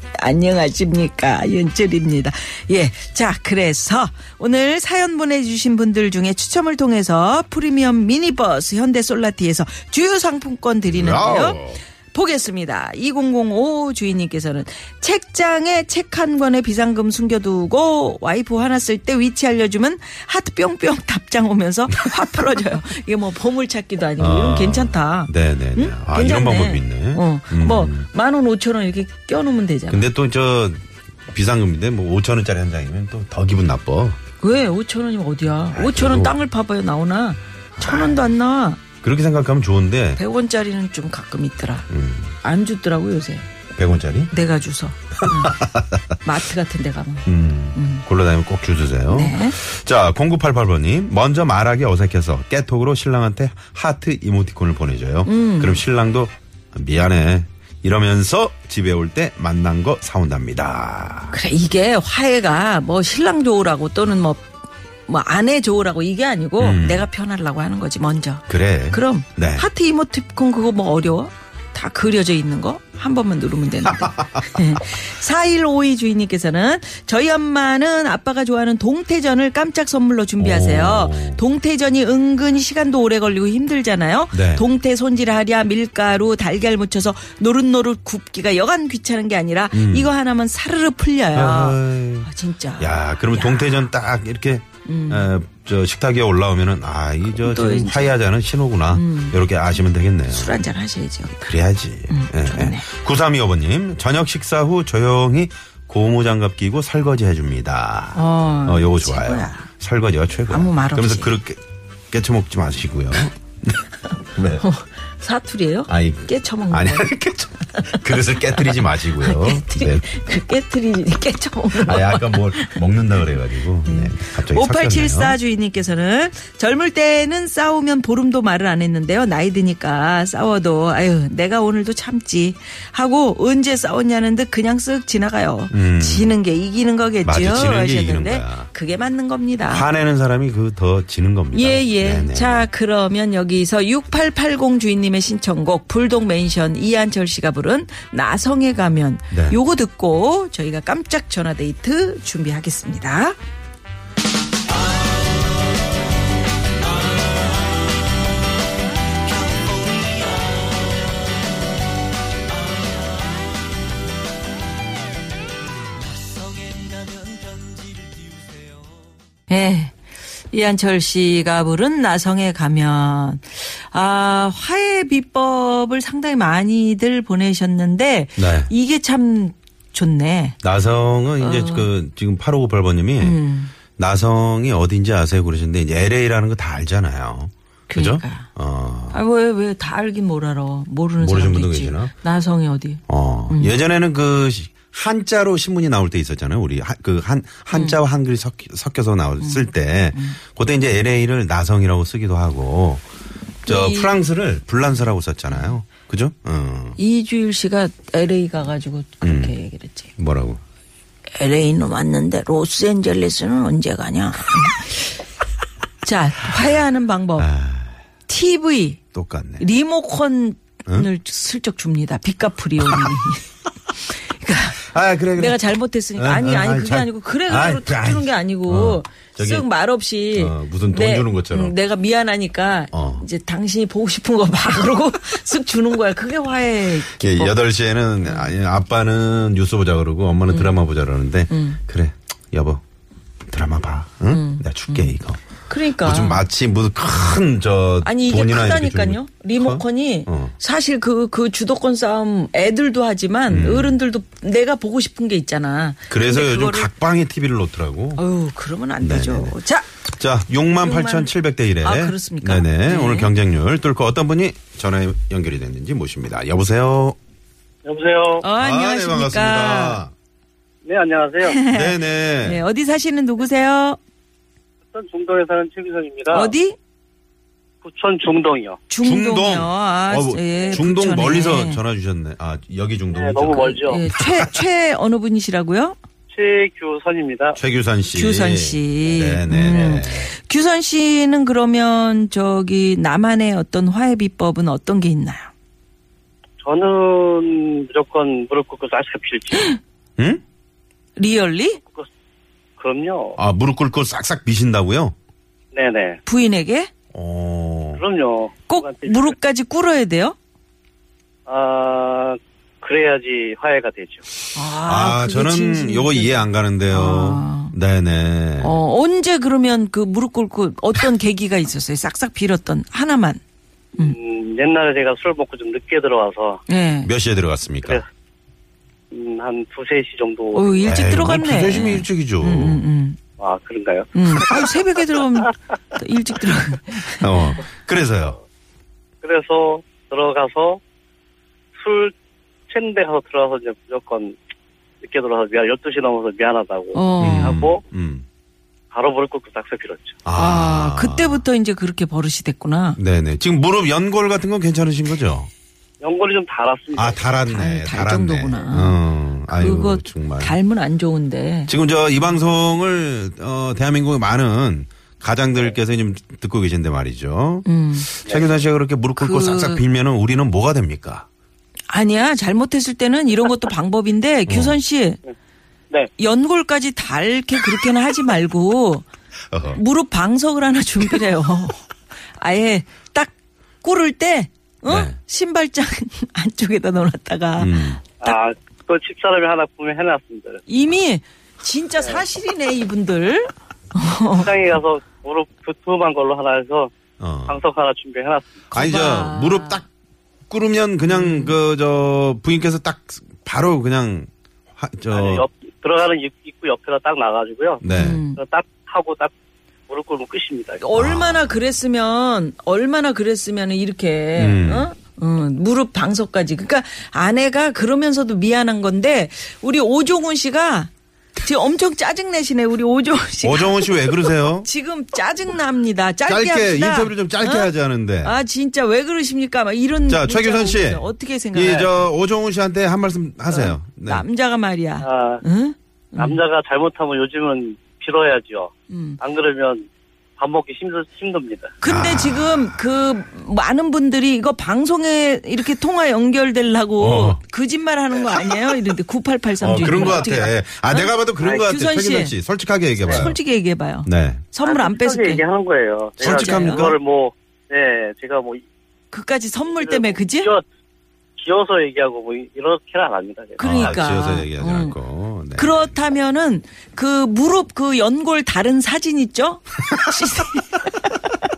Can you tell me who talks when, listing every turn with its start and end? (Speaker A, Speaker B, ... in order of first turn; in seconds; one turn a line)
Speaker A: 0.1-30.1
Speaker B: 10.9-11.8
Speaker B: 24.2-28.1
Speaker B: 29.9-34.2
Speaker A: 34.4-38.8
Speaker B: 35.7-36.4
Speaker B: 37.8-38.2
Speaker B: 39.0-40.2
Speaker A: 40.2-41.9
Speaker B: 41.9-42.4
Speaker A: 42.4-43.5
Speaker B: 43.8-44.3
Speaker A: 44.3-45.7
Speaker B: 45.3-46.2
Speaker A: 46.2-48.0
Speaker B: 47.3-61.4
Speaker A: 49.1-49.6
Speaker A: 55.2-55.8
Speaker A: 61.3-64.6
Speaker A: 65.1-93.9
Speaker B: 66.6-67.1
Speaker B: 68.5-69.7
Speaker B: 74.0-74.4
Speaker B: 80.4-81.4
Speaker B: 84.3-84.7
Speaker B: 89.7-90.1
Speaker B: 91.3-100.6
Speaker A: 94.8-95.3
Speaker A: 97.5-98.2
Speaker A: 98.9-99.4
Speaker A: 100.3-101.5
Speaker B: 101.4-113.7
Speaker A: 102.1-102.8
Speaker A: 108.1-109.7
Speaker A: 110.5-111.3
Speaker B: 114.3-114.7
Speaker A: 114.6-117.1
Speaker B: 115.9-120.1
Speaker A: 117.8-122.8
Speaker B: 121.7-125.4
Speaker A: 123.8-139.9
Speaker B: 135.7-136.4
Speaker B: 137.2-138.7
Speaker B: 139.7-142.7
Speaker A: 141.5-153.4
Speaker B: 149.3-149.6
Speaker A: 169.5-169.9
Speaker A: 170.5-180.6
Speaker B: 178.4-178.7
Speaker B: 180.6-183.4
Speaker A: 181.4-181.9
Speaker A: 183.2-183.7
Speaker B: 184.0-189.2
Speaker A: 187.9-188.5
Speaker A: 189.1-193.8
Speaker B: 191.2-192.1
Speaker B: 193.1-203.0
Speaker A: 197.7-198.0
Speaker A: 199.4-200.4
Speaker B: 203.6-207.0
Speaker A: 203.7-204.1
Speaker A: 207.0-210.1
Speaker B: 209.2-209.5
Speaker B: 210.2-210.6
Speaker A: 211.3-215.2
Speaker A: 216.0-217.5
Speaker B: 217.4-218.0
Speaker A: 218.3-219.0
Speaker B: 219.1-219.6
Speaker A: 219.6-223.5
Speaker A: 224.1-237.6
Speaker B: 224.8-225.6
Speaker B: 226.2-229.7
Speaker B: 230.3-231.7
Speaker B: 232.9-233.2
Speaker B: 237.2-242.8
Speaker A: 238.2-238.5
Speaker A: 240.5-240.8
Speaker A: 241.5-241.8
Speaker B: 243.5-245.4
Speaker A: 244.3-245.2
Speaker A: 245.7-246.4
Speaker B: 246.0-250.5
Speaker A: 248.0-256.9
Speaker B: 253.5-254.0
Speaker B: 256.1-258.2
Speaker A: 258.2-259.9
Speaker B: 259.0-259.6
Speaker B: 260.1-267.2
Speaker A: 260.7-263.3
Speaker C: 267.9-268.4
Speaker A: 268.4-270.0
Speaker B: 268.6-270.1
Speaker C: 270.8-271.6
Speaker A: 271.4-274.0
Speaker B: 271.7-272.6
Speaker C: 274.9-276.5
Speaker A: 276.3-276.8
Speaker C: 277.8-278.8
Speaker A: 278.9-281.8
Speaker B: 279.0-284.6
Speaker C: 283.1-284.0
Speaker A: 283.7-286.0
Speaker C: 286.3-287.6
Speaker B: 287.6-290.3
Speaker A: 288.1-295.5
Speaker C: 296.6-299.8
Speaker A: 301.2-301.8
Speaker C: 302.8-303.4
Speaker B: 303.4-305.1
Speaker C: 305.7-306.2
Speaker A: 306.3-306.9
Speaker B: 307.1-308.0
Speaker C: 308.0-309.4
Speaker A: 308.7-310.4
Speaker C: 311.5-314.2
Speaker A: 314.5-317.8
Speaker B: 314.8-318.8
Speaker A: 318.6-323.4
Speaker C: 324.0-326.6
Speaker A: 326.7-327.1
Speaker B: 327.0-328.0
Speaker C: 329.1-331.0
Speaker A: 330.5-333.2
Speaker B: 330.9-332.8
Speaker C: 333.4-334.6
Speaker A: 334.1-337.5
Speaker B: 337.2-338.4
Speaker C: 339.2-340.8
Speaker C: 341.8-342.1
Speaker C: 342.7-344.4
Speaker C: 345.0-347.8
Speaker A: 346.9-347.6
Speaker B: 347.2-348.2
Speaker C: 348.9-350.2
Speaker B: 350.3-351.4
Speaker A: 350.4-353.0
Speaker B: 353.0-355.5
Speaker C: 356.0-357.2
Speaker B: 356.9-360.6
Speaker A: 357.5-361.7
Speaker B: 361.7-371.3
Speaker A: 367.6-368.1
Speaker A: 369.2-369.8
Speaker A: 371.9-375.2
Speaker B: 374.5-374.8
Speaker A: 376.2-379.1
Speaker B: 379.5-379.8
Speaker A: 379.7-381.8
Speaker A: 382.4-383.3
Speaker A: 383.8-388.3
Speaker B: 384.9-385.2
Speaker B: 387.6-388.0
Speaker C: 388.2-390.6
Speaker A: 390.7-394.5
Speaker C: 394.4-396.9
Speaker B: 397.2-397.6
Speaker C: 397.5-398.6
Speaker A: 398.7-399.8
Speaker B: 398.7-399.9
Speaker B: 400.5-405.4
Speaker A: 401.1-401.6
Speaker C: 405.1-407.8
Speaker B: 407.8-408.2
Speaker A: 407.9-408.4
Speaker C: 408.4-409.3
Speaker C: 409.9-410.8
Speaker A: 410.8-432.1
Speaker B: 410.9-411.6
Speaker B: 414.4-414.9
Speaker B: 423.4-424.7
Speaker B: 426.3-428.4
Speaker B: 430.1-434.3
Speaker A: 433.5-436.4
Speaker C: 435.0-435.4
Speaker C: 436.2-441.8
Speaker A: 438.9-439.2
Speaker A: 441.8-452.4
Speaker B: 441.8-442.8
Speaker B: 447.0-447.4
Speaker B: 449.6-453.4
Speaker C: 449.8-450.5
Speaker A: 453.0-455.4
Speaker C: 453.1-453.3
Speaker B: 454.1-454.5
Speaker C: 454.6-458.6
Speaker B: 456.2-457.0
Speaker A: 456.2-456.9
Speaker A: 459.1-460.5
Speaker C: 459.8-460.6
Speaker C: 461.4-464.1
Speaker A: 463.6-465.0
Speaker B: 463.6-465.9
Speaker A: 465.6-471.3